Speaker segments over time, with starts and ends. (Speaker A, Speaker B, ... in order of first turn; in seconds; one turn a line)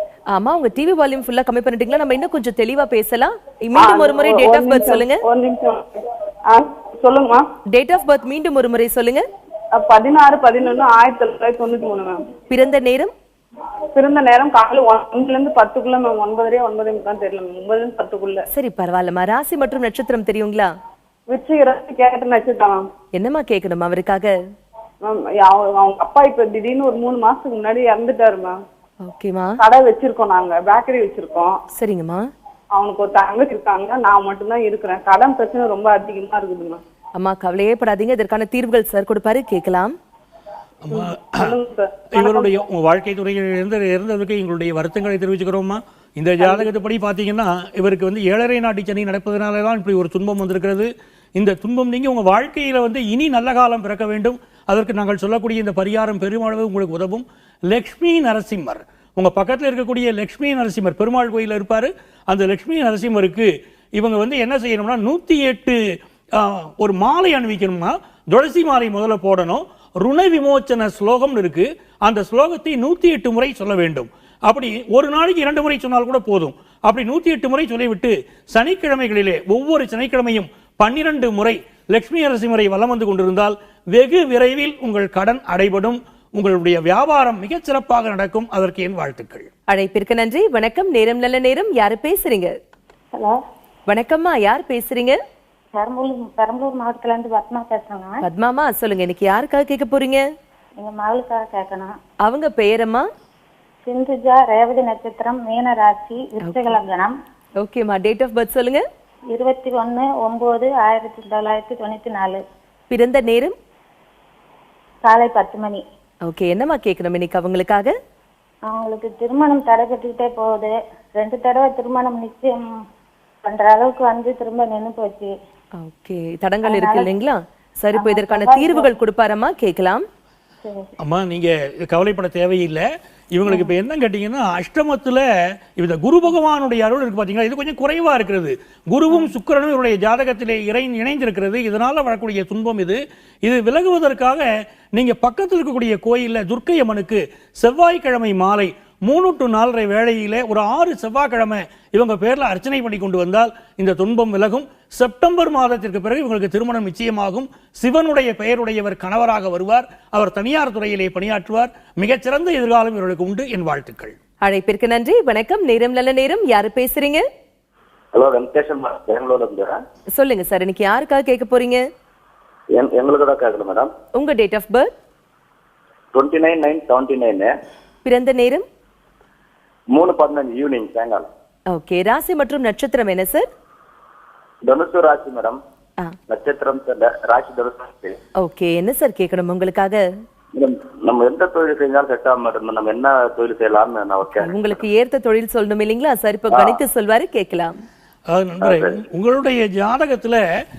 Speaker A: 0.3-5.2
Speaker B: 3.8-7.5
Speaker A: 7.7-9.3
Speaker B: 9.8-12.2
Speaker A: 12.5-13.1
Speaker B: 13.9-18.4
Speaker A: 18.5-20.7
Speaker B: 21.3-22.9
Speaker A: 23.1-24.3
Speaker B: 25.1-28.6
Speaker A: 29.1-29.6
Speaker B: 29.6-31.6
Speaker A: 31.8-32.3
Speaker B: 32.8-36.8
Speaker A: 37.2-40.0
Speaker C: 40.9-41.5
Speaker B: 40.9-42.5
Speaker C: 42.1-65.8
Speaker B: 46.4-46.7
Speaker C: 66.4-89.5
Speaker A: 89.7-92.5
Speaker D: 93.1-93.4
Speaker A: 93.9-95.2
Speaker D: 95.8-98.2
Speaker A: 98.2-100.2
Speaker D: 100.8-101.9
Speaker A: 102.2-103.1
Speaker D: 103.9-107.2
Speaker A: 106.4-106.8
Speaker A: 107.6-108.8
Speaker D: 109.3-112.4
Speaker A: 112.9-113.6
Speaker D: 115.0-115.8
Speaker A: 116.3-118.0
Speaker D: 118.7-122.7
Speaker D: 123.5-125.3
Speaker A: 125.8-130.1
Speaker D: 126.7-127.1
Speaker D: 127.9-128.9
Speaker D: 130.6-131.0
Speaker C: 131.0-135.2
Speaker C: 135.8-164.2
Speaker A: 164.4-167.2
Speaker E: 168.1-169.8
Speaker A: 170.2-171.8
Speaker E: 172.8-173.9
Speaker A: 174.2-174.9
Speaker E: 176.1-177.5
Speaker A: 178.1-178.7
Speaker E: 179.9-181.3
Speaker A: 181.7-183.5
Speaker E: 184.7-185.6
Speaker E: 186.3-188.2
Speaker A: 188.4-190.0
Speaker E: 190.6-194.6
Speaker A: 194.3-197.8
Speaker E: 196.5-196.8
Speaker C: 198.3-200.4
Speaker E: 198.6-198.9